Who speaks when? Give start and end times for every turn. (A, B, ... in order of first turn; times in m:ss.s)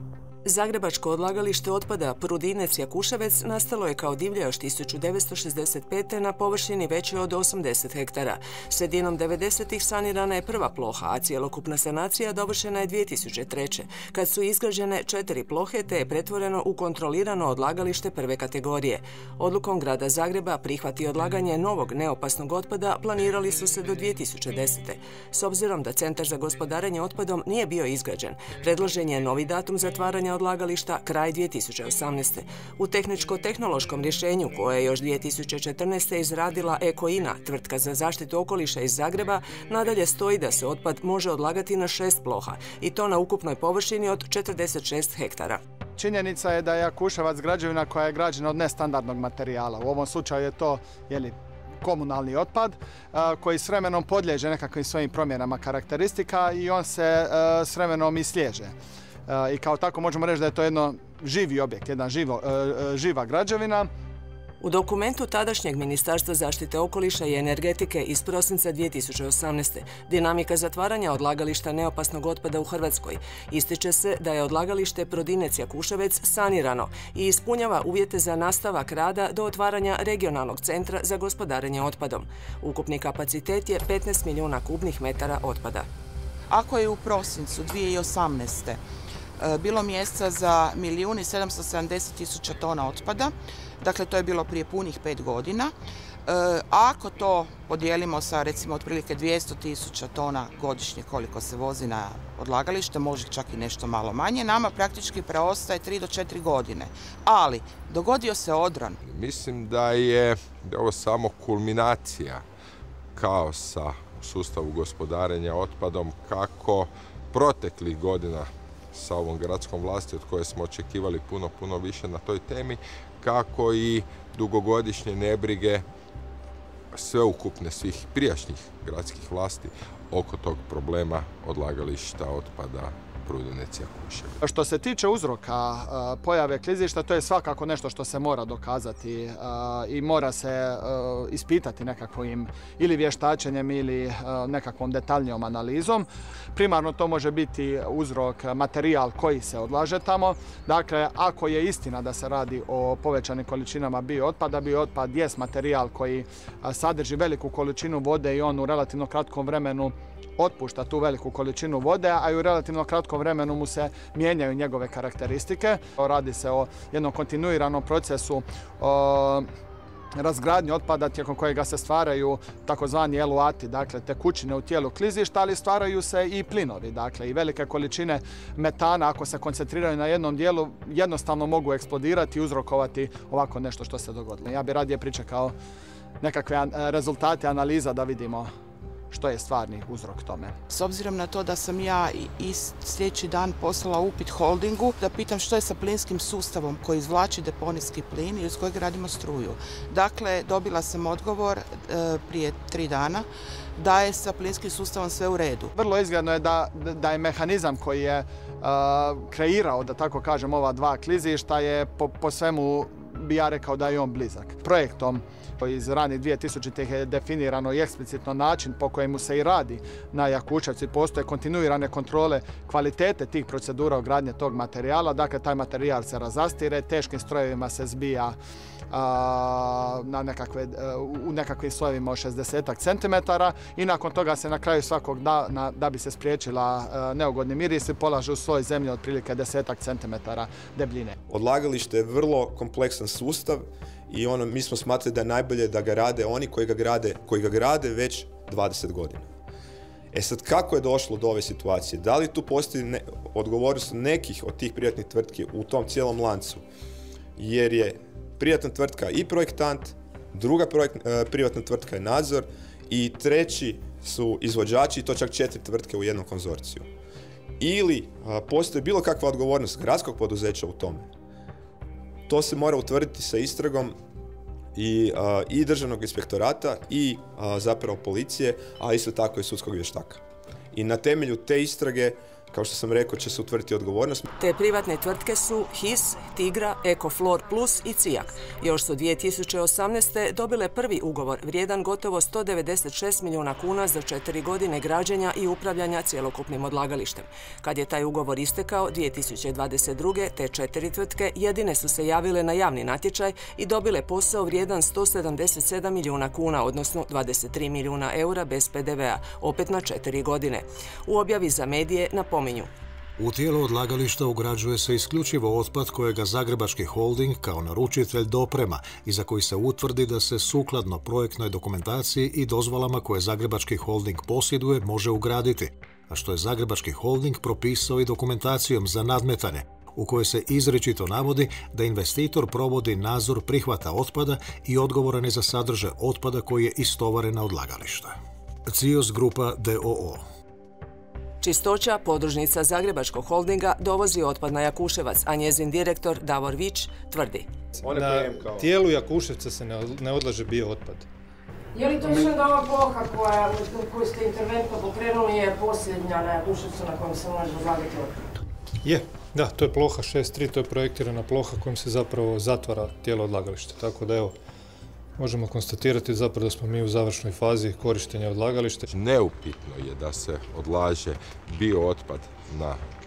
0:00.4-0:45.6 A
0:46.0-0:58.7 B
0:59.3-1:03.9 B
1:04.6-1:25.9 A
1:26.5-1:28.8 C
1:29.4-1:35.7 C
1:36.2-1:49.0 C
1:49.0-1:52.4 D
1:53.2-2:05.8 D
2:06.9-2:14.4 D
2:14.4-2:49.5 B
2:50.2-3:05.5 B
3:06.2-3:08.5 B
3:09.1-3:10.5 B
3:10.7-3:25.7 C
3:25.8-3:48.4 B
3:48.9-4:01.2 B
4:01.3-4:09.3 E
4:10.1-4:16.6 E
4:17.4-4:26.9 E
4:27.6-4:31.1 E
4:32.3-4:34.0 E
4:34.8-4:40.2 E
4:40.7-4:44.3 E
4:44.4-5:12.7 A
5:13.2-5:38.2 F
5:38.7-5:40.2 F
5:41.4-5:47.5 A
5:47.8-5:48.8 E
5:47.9-5:51.0 G
5:51.7-5:58.1 H
5:58.8-6:04.4 G
6:05.2-6:08.8 G
6:08.9-6:12.8 D